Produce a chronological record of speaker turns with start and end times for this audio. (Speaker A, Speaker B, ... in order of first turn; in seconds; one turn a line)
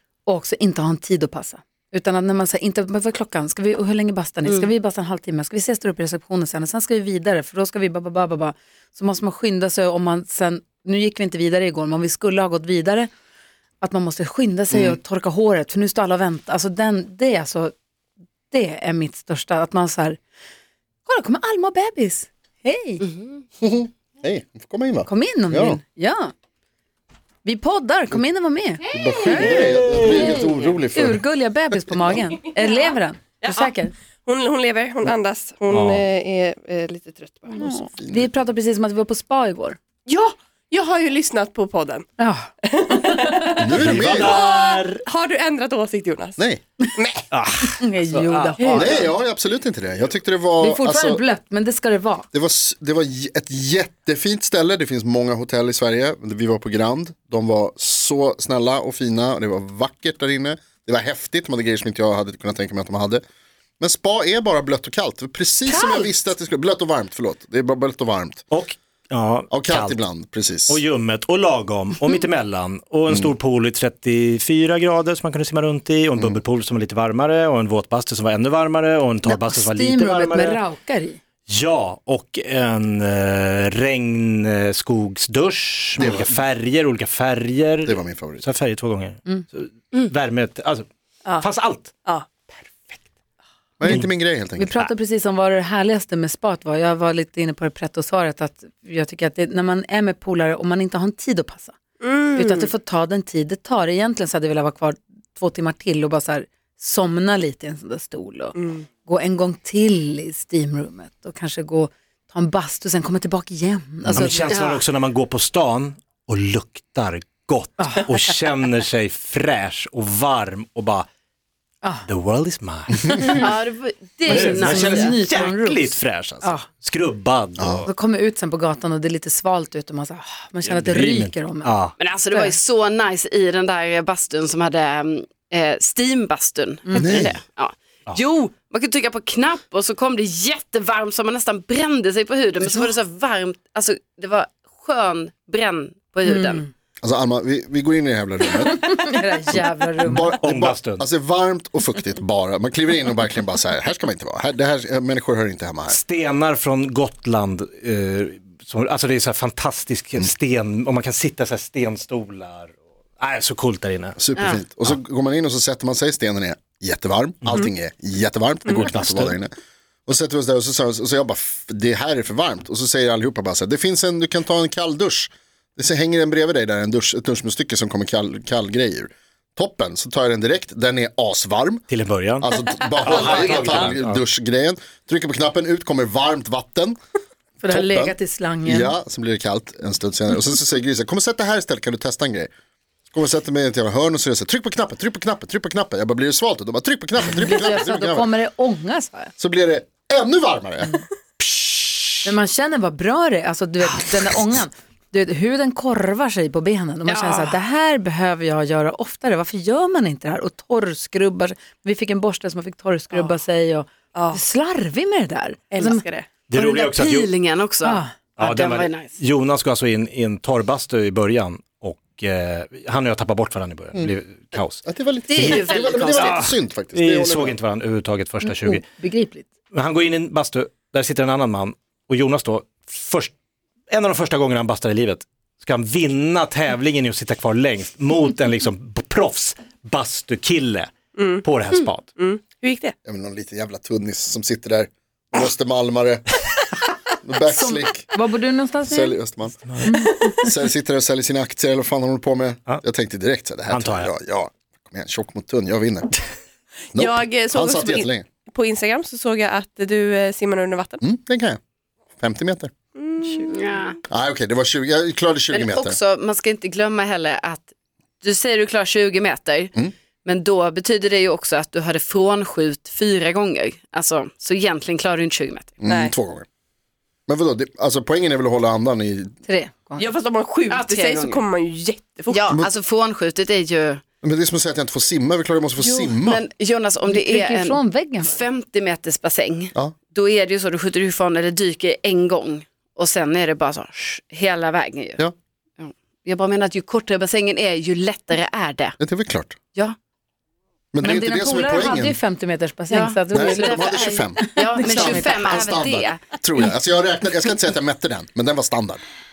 Speaker A: 0.2-13.1
Speaker A: 13.8-17.7
Speaker B: 14.7-15.0
Speaker A: 18.5-20.2
Speaker A: 21.1-23.0
Speaker C: 23.1-23.4
Speaker B: 23.6-25.8
Speaker A: 25.1-26.3
Speaker A: 27.4-33.9
Speaker B: 28.9-31.2
Speaker D: 29.4-30.5
Speaker E: 33.4-33.7
Speaker E: 34.2-37.6
Speaker D: 35.7-36.0
Speaker A: 37.5-39.8
Speaker B: 38.0-38.3
Speaker E: 40.0-42.1
Speaker A: 42.2-43.5
Speaker E: 42.6-43.6
Speaker B: 43.6-44.4
Speaker D: 43.7-45.0
Speaker E: 44.2-47.3
Speaker B: 46.4-46.6
Speaker D: 47.3-48.6
Speaker A: 47.8-49.1
Speaker E: 48.6-49.0
Speaker B: 48.7-51.2
Speaker A: 50.6-52.3
Speaker B: 52.3-63.2
Speaker B: 63.8-68.4
Speaker D: 68.5-70.0
Speaker B: 69.5-70.8
Speaker D: 70.7-80.6
Speaker A: 79.2-81.2
Speaker D: 81.5-90.8
Speaker B: 86.0-86.3
Speaker B: 87.8-88.4
Speaker D: 91.4-91.9
Speaker D: 92.5-93.0
Speaker B: 93.8-94.7
Speaker A: 94.6-101.8
Speaker E: 102.0-102.7
Speaker A: 102.3-114.5
Speaker E: 108.5-108.8
Speaker D: 114.1-121.1
Speaker C: 114.5-114.8
Speaker A: 117.8-118.1
Speaker D: 122.1-123.5
Speaker C: 123.2-125.2
Speaker D: 124.2-127.9
Speaker A: 124.2-126.7
Speaker B: 127.6-127.8
Speaker A: 127.8-131.8
Speaker D: 130.6-131.9
Speaker C: 132.0-146.6
Speaker A: 132.3-132.6
Speaker A: 136.9-137.2
Speaker B: 137.0-137.4
Speaker A: 146.3-146.7
Speaker B: 147.0-156.0
Speaker A: 148.7-150.3
Speaker D: 150.4-151.0
Speaker D: 155.9-164.2
Speaker B: 164.2-169.5
Speaker C: 164.4-164.6
Speaker D: 168.8-169.4
Speaker B: 170.1-181.8
Speaker D: 181.9-182.5
Speaker B: 182.4-187.0
Speaker D: 183.0-184.2
Speaker E: 183.0-183.9
Speaker A: 187.6-188.9
Speaker B: 187.7-192.5
Speaker B: 193.1-198.3
Speaker A: 197.3-199.3
Speaker B: 199.4-201.0
Speaker D: 201.4-202.1
Speaker A: 202.2-216.0
Speaker C: 207.1-207.6
Speaker E: 214.1-214.4
Speaker E: 215.7-216.3
Speaker D: 216.5-217.3
Speaker C: 216.5-219.1
Speaker A: 217.8-218.1
Speaker D: 218.4-228.8
Speaker B: 224.8-227.6
Speaker C: 225.3-226.4
Speaker A: 228.4-229.5
Speaker D: 229.7-233.3
Speaker D: 233.9-240.9
Speaker E: 241.1-241.4
Speaker D: 241.4-242.1
Speaker E: 242.2-242.9
Speaker B: 243.0-246.3
Speaker B: 247.2-248.1
Speaker A: 247.5-249.2
Speaker B: 248.8-249.6
Speaker D: 249.7-249.9
Speaker A: 249.8-250.5
Speaker B: 250.3-256.4
Speaker D: 253.7-254.1
Speaker B: 256.9-258.2
Speaker E: 256.9-261.0
Speaker B: 261.0-261.6
Speaker B: 262.2-262.7
Speaker E: 262.9-263.6
Speaker C: 263.4-263.9
Speaker B: 264.1-266.0
Speaker C: 265.5-267.7
Speaker C: 268.2-275.8
Speaker B: 275.8-276.4
Speaker E: 275.9-276.1
Speaker B: 277.3-279.3
Speaker A: 279.4-280.1
Speaker E: 280.0-282.6
Speaker C: 280.7-281.4
Speaker C: 282.3-284.0
Speaker B: 284.2-286.4
Speaker C: 286.1-295.2
Speaker A: 287.1-288.4
Speaker C: 295.8-299.0
Speaker B: 299.0-299.6
Speaker B: 300.9-302.2
Speaker A: 301.0-305.7
Speaker C: 302.9-306.2
Speaker B: 303.3-309.0